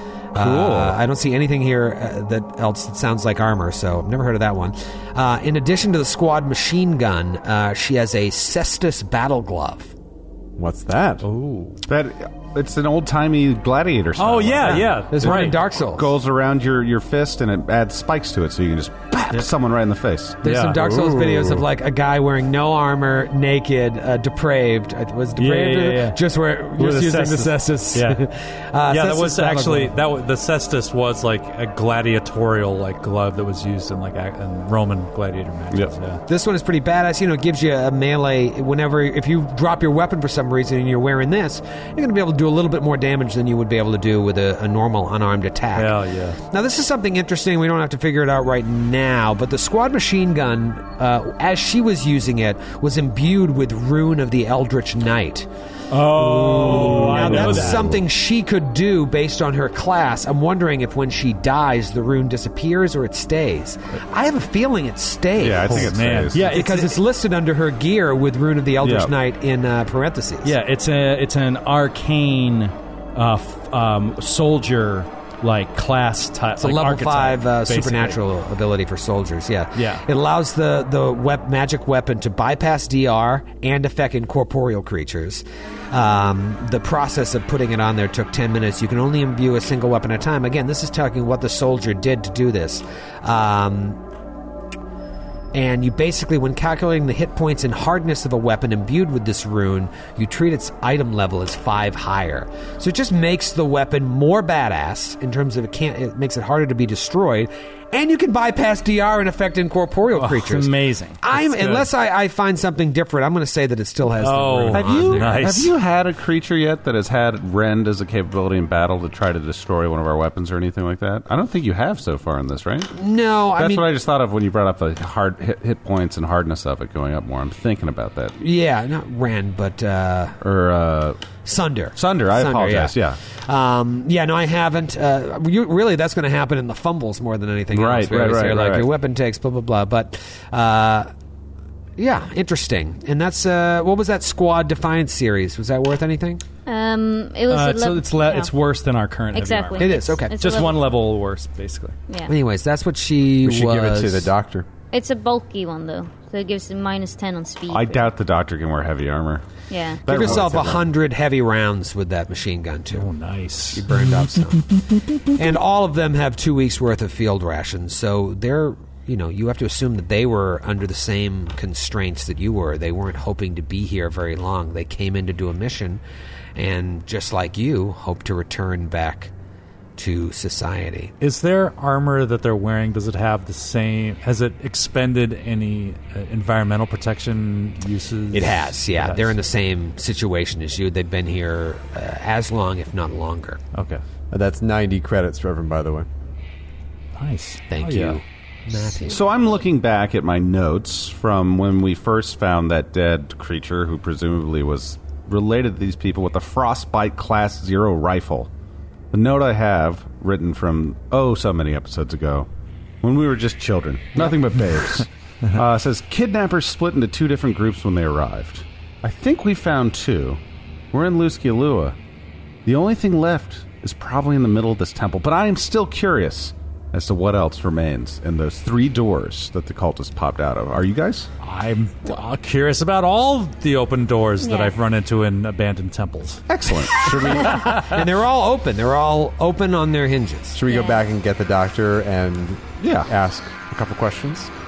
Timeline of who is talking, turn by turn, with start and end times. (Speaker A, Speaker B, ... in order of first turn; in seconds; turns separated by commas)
Speaker A: 0.3-9.9, Speaker B: 0.4-1.0, Speaker C: 10.6-11.3, Speaker D: 11.3-11.8, Speaker B: 11.9-20.4, Speaker D: 14.2-15.6, Speaker A: 15.1-16.1, Speaker A: 20.4-29.9, Speaker E: 20.4-20.8, Speaker C: 20.6-21.7, Speaker E: 25.4-26.2, Speaker E: 26.8-28.2, Speaker D: 28.9-36.2, Speaker A: 36.3-55.5, Speaker D: 45.7-46.4, Speaker E: 55.9-57.9, Speaker A: 56.2-70.5, Speaker D: 56.2-57.8, Speaker B: 57.2-57.9, Speaker B: 65.4-66.6, Speaker D: 65.7-66.5, Speaker E: 66.3-67.0, Speaker B: 68.8-69.1, Speaker E: 70.4-78.2, Speaker A: 76.6-94.0, Speaker E: 79.8-80.0, Speaker A: 95.5-115.6, Speaker E: 110.1-111.2, Speaker D: 111.3-111.9, Speaker D: 114.2-115.7, Speaker B: 114.7-122.9, Speaker A: 122.9-123.9, Speaker B: 123.6-128.4, Speaker A: 128.4-130.4, Speaker B: 130.4-131.2, Speaker A: 131.4-141.1, Speaker B: 132.0-133.2, Speaker B: 137.7-138.9, Speaker A: 142.0-146.4, Speaker F: 146.7-148.5, Speaker E: 147.5-152.0, Speaker F: 149.3-150.9, Speaker A: 149.8-150.7, Speaker F: 152.1-152.3, Speaker A: 152.3-154.3, Speaker C: 153.4-154.7, Speaker F: 154.9-158.1, Speaker B: 157.7-159.4, Speaker F: 159.7-160.1, Speaker B: 160.1-160.9, Speaker A: 160.1-163.1, Speaker D: 162.9-163.9, Speaker A: 163.7-176.0, Speaker A: 176.6-179.3, Speaker A: 180.0-181.1, Speaker D: 181.2-189.4, Speaker A: 188.3-193.6, Speaker D: 193.7-194.0, Speaker C: 194.3-196.1, Speaker D: 197.2-198.2, Speaker A: 197.7-199.2, Speaker B: 199.1-208.5, Speaker B: 209.1-212.5, Speaker B: 213.0-220.4, Speaker B: 220.9-222.0, Speaker B: 222.7-231.3, Speaker D: 231.4-236.4, Speaker F: 234.4-234.8, Speaker B: 236.5-237.2, Speaker C: 237.0-237.6, Speaker D: 237.2-237.8, Speaker A: 237.5-240.6, Speaker C: 240.5-244.5, Speaker F: 240.7-241.0, Speaker B: 242.8-243.1